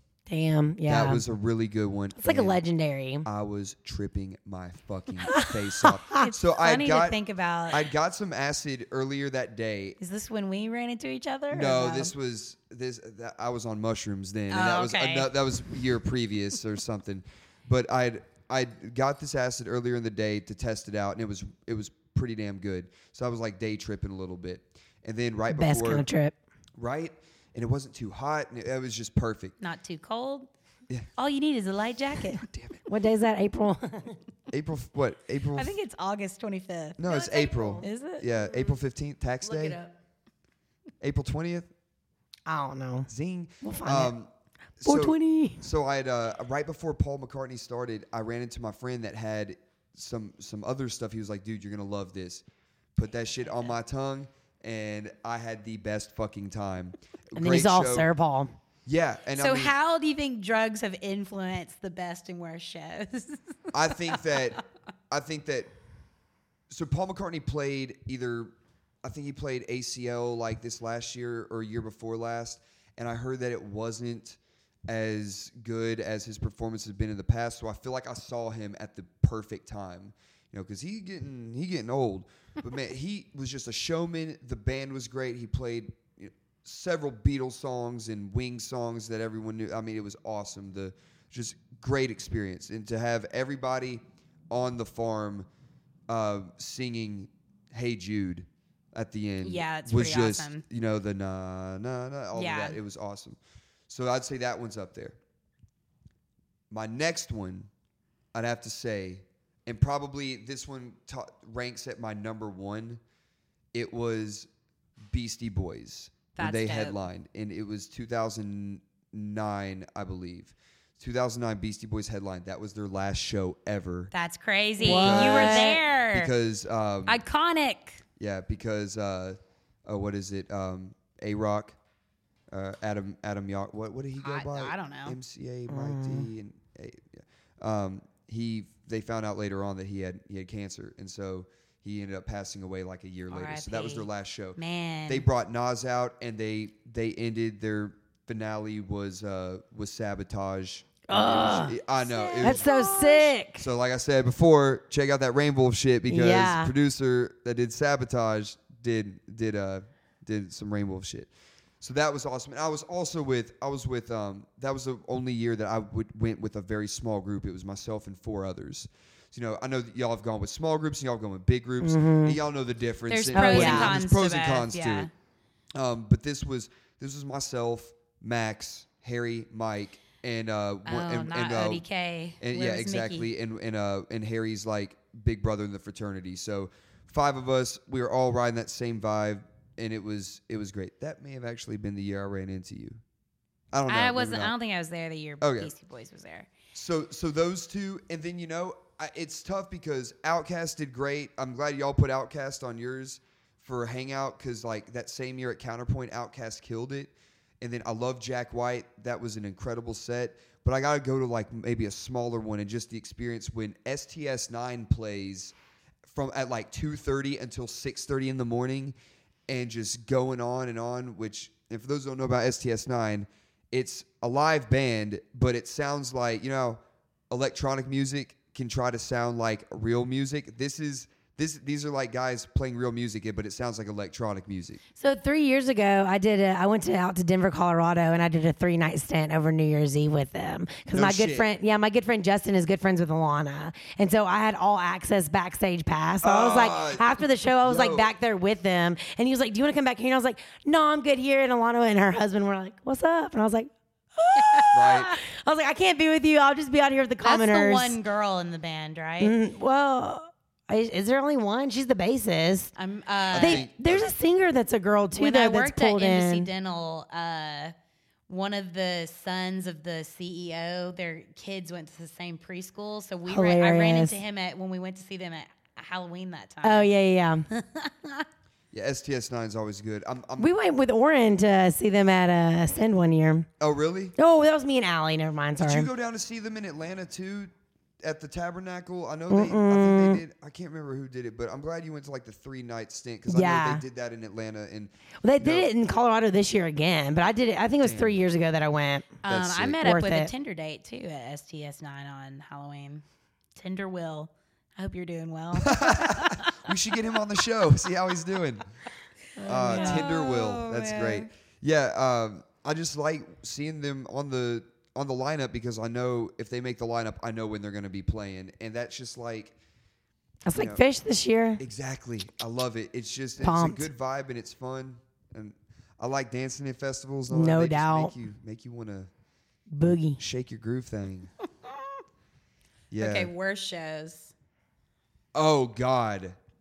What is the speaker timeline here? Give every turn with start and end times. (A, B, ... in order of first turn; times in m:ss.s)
0:00.3-0:01.2 A
0:00.9-0:02.6 B
0:02.2-0:03.2 A
0:03.2-0:07.2 B
0:05.3-0:06.3 A
0:06.2-0:07.9 C
0:07.7-0:10.0 B
0:10.0-0:12.1 C
0:11.5-0:26.0 B
0:14.5-0:15.3 C
0:25.5-0:26.3 A
0:26.8-0:29.5 B
0:29.6-0:30.5 C
0:31.2-0:32.4 C
0:32.4-0:32.8 B
0:32.8-0:34.2 A
0:34.5-0:35.7 B
0:35.6-0:38.7 C
0:37.0-0:39.8 B
0:39.4-0:39.9 C
0:41.0-0:41.7 B
0:42.5-0:43.1 A
0:43.1-0:52.4 B
0:43.6-0:44.1 A
0:44.8-0:45.6 A
0:52.9-0:58.1 B
0:53.4-0:53.7 C
0:57.4-0:58.5 A
0:58.8-0:59.7 B
0:59.4-1:04.4 C
1:03.7-1:05.7 B
1:06.7-1:08.5 B
1:09.0-1:35.5 B
1:36.1-1:43.4 B
1:39.4-1:40.6 C
1:42.3-1:42.8 C
1:43.9-1:45.2 B
1:46.7-1:47.7 B
1:48.3-1:53.0 B
1:53.7-1:54.5 B
1:55.1-2:04.1 B
1:56.4-1:57.0 C
2:04.1-2:06.3 C
2:04.8-2:05.8 A
2:04.8-2:07.2 B
2:07.1-2:08.0 C
2:08.2-2:11.8 B
2:12.5-2:32.7 B
2:14.2-2:15.2 C
2:15.7-2:16.3 A
2:23.3-2:25.2 C
2:31.1-2:31.7 A
2:32.0-2:33.3 C
2:32.4-2:33.6 A
2:33.6-2:41.3 B
2:36.1-2:36.7 A
2:41.8-2:55.1 B
2:51.8-2:52.4 A
2:53.1-2:55.1 C
2:53.3-2:54.0 A
2:55.7-3:01.8 B
3:00.8-3:03.3 C
3:02.4-3:13.0 B
3:13.7-3:14.5 B
3:13.9-3:16.5 C
3:15.4-3:15.7 B
3:16.7-3:35.5 B
3:36.1-3:38.9 B
3:39.5-3:46.8 B
3:47.3-3:54.8 B
3:55.0-4:18.0 A
4:00.9-4:01.5 B
4:06.2-4:07.1 B
4:07.6-4:08.1 B
4:14.4-4:15.2 C
4:14.7-4:15.1 B
4:17.2-4:19.3 C
4:19.2-4:22.7 A
4:22.8-4:23.6 C
4:23.3-4:24.1 B
4:23.3-4:26.5 A
4:25.2-4:27.7 C
4:28.3-4:36.9 C
4:33.3-4:34.2 A
4:36.6-4:37.5 A
4:37.5-4:38.3 C
4:38.7-4:40.5 B
4:40.4-4:43.5 A
4:43.6-4:44.1 B
4:44.2-4:45.9 A
4:45.6-4:47.5 B
4:48.0-4:55.7 B
4:49.3-4:50.2 A
4:53.3-4:53.8 A
4:55.2-4:59.2 A
4:57.8-4:58.2 B
4:59.2-5:03.0 C
4:59.2-4:59.8 B
4:59.8-5:00.3 A
5:03.5-5:06.7 C
5:05.6-5:08.7 B
5:09.4-5:11.3 C
5:09.4-5:19.6 B
5:09.4-5:10.1 A
5:20.4-5:21.6 A
5:20.5-5:20.8 B
5:21.6-5:29.1 B
5:23.4-5:23.9 A
5:27.3-5:28.1 A
5:29.7-5:30.2 A
5:29.8-5:31.3 B
5:32.9-5:33.3 B
5:33.0-5:34.3 C
5:35.3-5:36.4 B